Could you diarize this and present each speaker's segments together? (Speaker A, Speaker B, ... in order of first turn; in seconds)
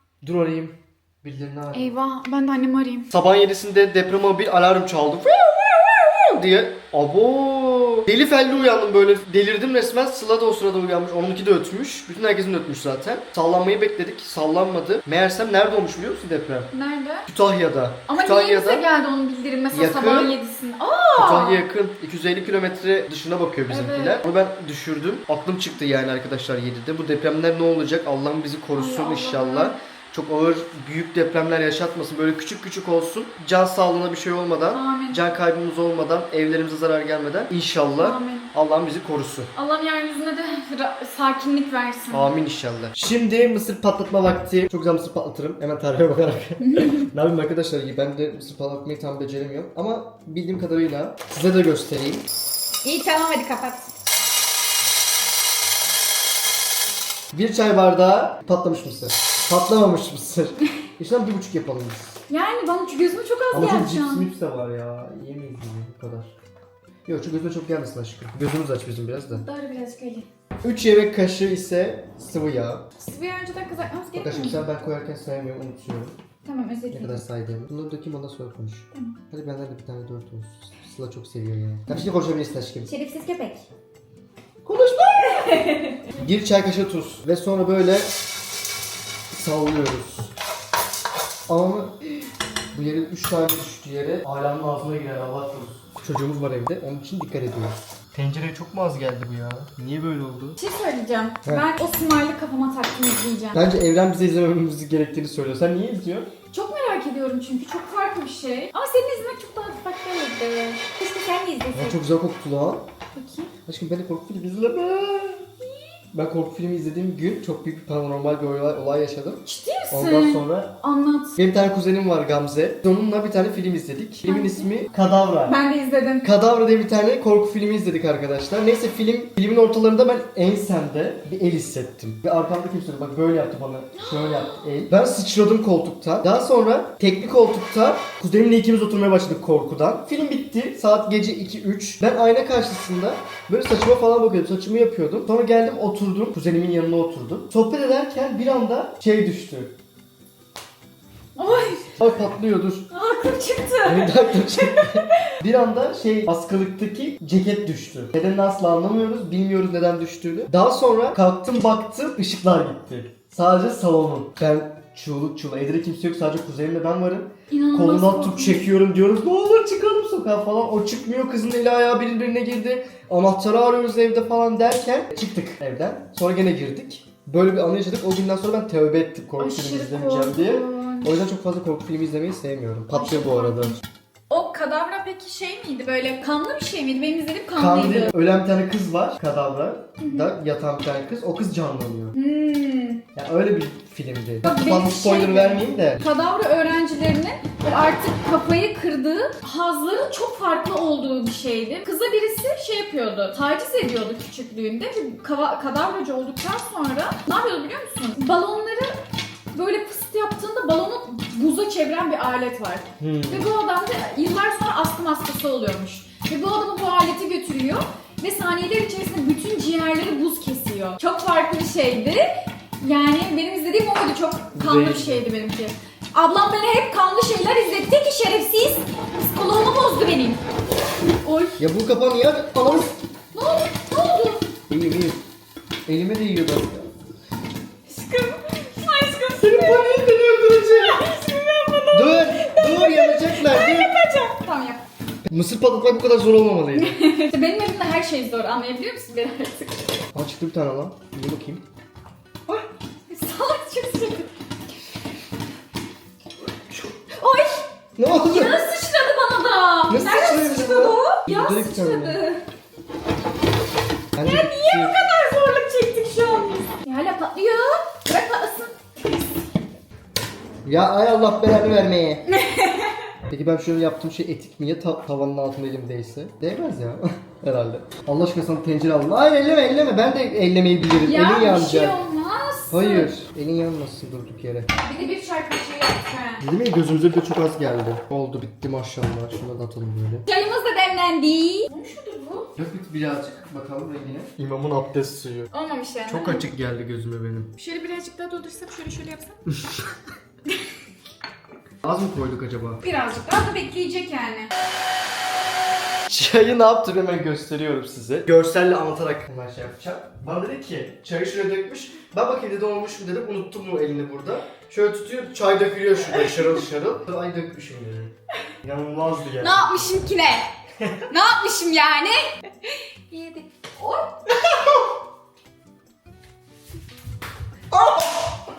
Speaker A: 0.2-2.0, 3.1-16.7, 17.3-18.9, 19.7-20.3, 21.2-39.5, 42.1-52.3, 57.3-62.2, 63.5-66.3, 67.1-69.5, 70.6-72.9, 74.1-76.2, 76.9-82.9, 84.6-88.1, 89.3-90.3, 91.5-100.6, 101.4-101.7, 103.5-106.3, 111.7-112.9, 113.7-115.5, 116.1-120.8, 121.4-125.6, 126.2-149.8, 151.9-152.9, 153.8-183.8, 187.6-192.2, 193.2-196.0, 213.0-213.5, 224.5-225.3, 231.6-233.0, 234.7-235.2, 235.9-236.9, 239.4-241.1, 241.9-243.9, 245.3-247.0, 250.1-251.7, 258.0-258.7, 259.9-262.2, 264.1-264.9, 270.6-272.2, 273.3-282.0, 282.7-284.7, 286.4-290.2, 292.6-295.5, 296.1-297.5, 299.5-299.8, 301.8-302.8, 306.1-319.9, 320.8-321.1, 327.7-328.4
Speaker B: 1.7-3.1, 16.7-17.3, 18.1-21.6, 23.7-24.3, 28.8-29.8, 34.7-35.2, 38.0-38.5, 39.5-42.3, 46.6-47.0, 52.8-53.9, 62.3-64.3, 69.3-70.3, 73.0-74.6, 76.4-77.2, 82.8-83.7, 85.3-86.2, 100.6-103.6, 106.5-112.0, 113.2-113.5, 119.5-121.4, 124.2-124.7, 125.5-126.3, 133.9-134.7, 151.4-151.9, 152.9-155.3, 167.5-168.7, 179.4-181.1, 182.9-188.1, 190.0-190.3, 192.1-193.0, 194.4-209.0, 209.5-230.4, 231.2-231.6, 233.3-234.5, 237.9-244.8, 246.7-249.9, 253.1-254.3, 257.1-262.4, 264.2-269.2, 272.3-273.1, 281.0-283.1, 284.7-286.4, 290.3-292.5, 295.5-296.4, 297.6-299.4, 302.8-304.5, 316.3-316.5, 319.4-320.5, 321.1-324.5